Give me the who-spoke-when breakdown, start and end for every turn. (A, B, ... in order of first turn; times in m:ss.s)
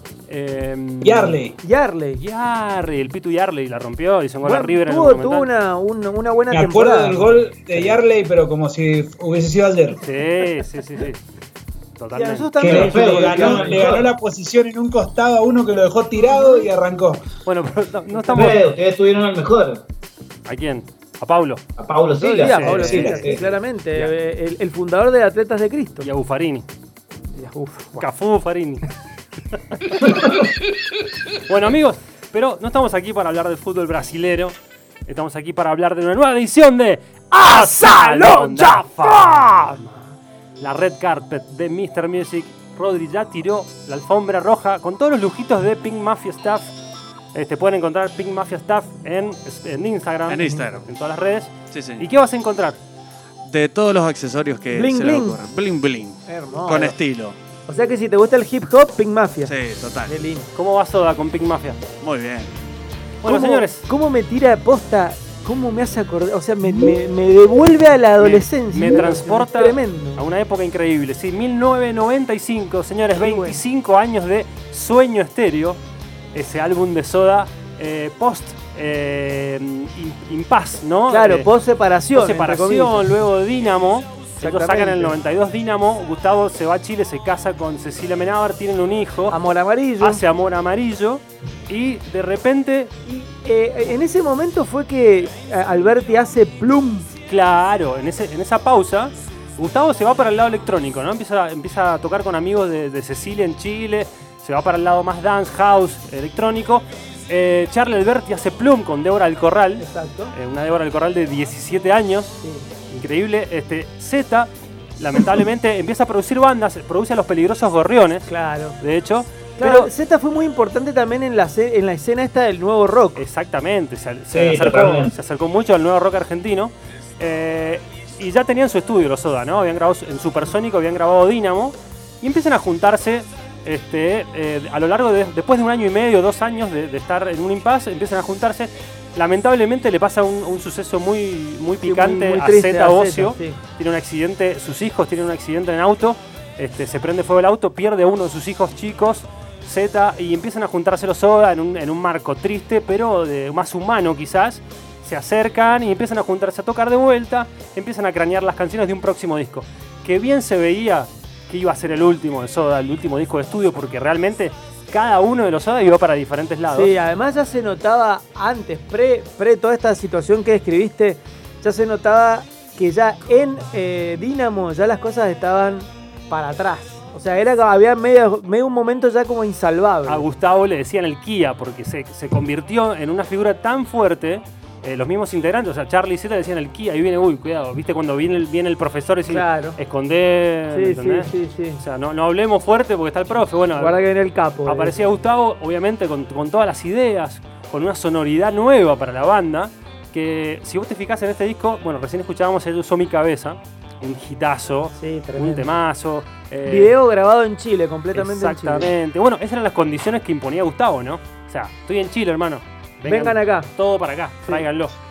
0:00.3-0:01.4 A
0:01.0-0:01.6 B
0:01.6-0:02.2 C
0:02.2-0:05.5 A
0:04.4-0:07.4 C
0:06.5-0:10.0 B
0:07.7-0:08.0 A
0:10.0-0:11.2 A
0:12.0-0:13.7 A
0:12.1-0:14.1 C
0:12.6-0:17.3 B
0:12.7-0:14.1 D
0:16.2-0:16.7 C
0:17.4-0:18.6 A
0:18.1-0:18.6 C
0:18.3-0:19.8 D
0:20.5-0:21.6 A
0:21.8-0:23.0 D
0:22.2-0:26.1 C
0:22.3-0:24.1 A
0:22.8-0:23.4 B
0:26.0-0:26.7 A
0:27.4-0:28.1 C
0:28.0-0:28.8 A
0:31.3-0:34.6 A
0:35.1-0:39.7 A
0:37.3-0:40.0 C
0:40.6-0:46.7 A
0:47.3-0:52.8 A
0:50.3-0:50.9 E
0:51.7-0:52.1 E
0:53.5-0:57.4 E
0:54.7-0:55.4 C
0:56.3-0:57.0 C
0:57.7-1:00.5 C
0:59.4-1:00.1 E
1:00.5-1:01.8 A
1:02.0-1:02.6 E
1:03.2-1:03.9 A
1:03.2-1:10.2 C
1:08.2-1:15.8 A
1:13.2-1:13.6 C
1:16.3-1:21.5 A
1:21.1-1:23.1 C
1:22.1-1:29.4 A
1:24.4-1:25.2 C
1:29.3-1:30.2 C
1:30.0-1:32.9 A
1:33.0-1:37.1 C
1:37.3-1:58.3 A
1:49.8-1:50.4 C
1:52.4-1:52.7 C
1:58.3-1:58.8 C
1:58.8-1:59.9 A
1:59.6-2:03.2 C
2:03.2-2:46.9 A
2:04.3-2:05.2 D
2:21.8-2:23.6 C
2:46.7-3:00.3 C
3:00.1-3:14.0 A
3:09.3-3:09.8 C
3:10.7-3:11.8 C
3:13.8-3:15.0 C
3:14.7-3:26.9 A
3:25.0-3:25.7 C
3:26.6-3:28.9 C
3:28.1-3:35.0 A
3:33.0-3:33.7 C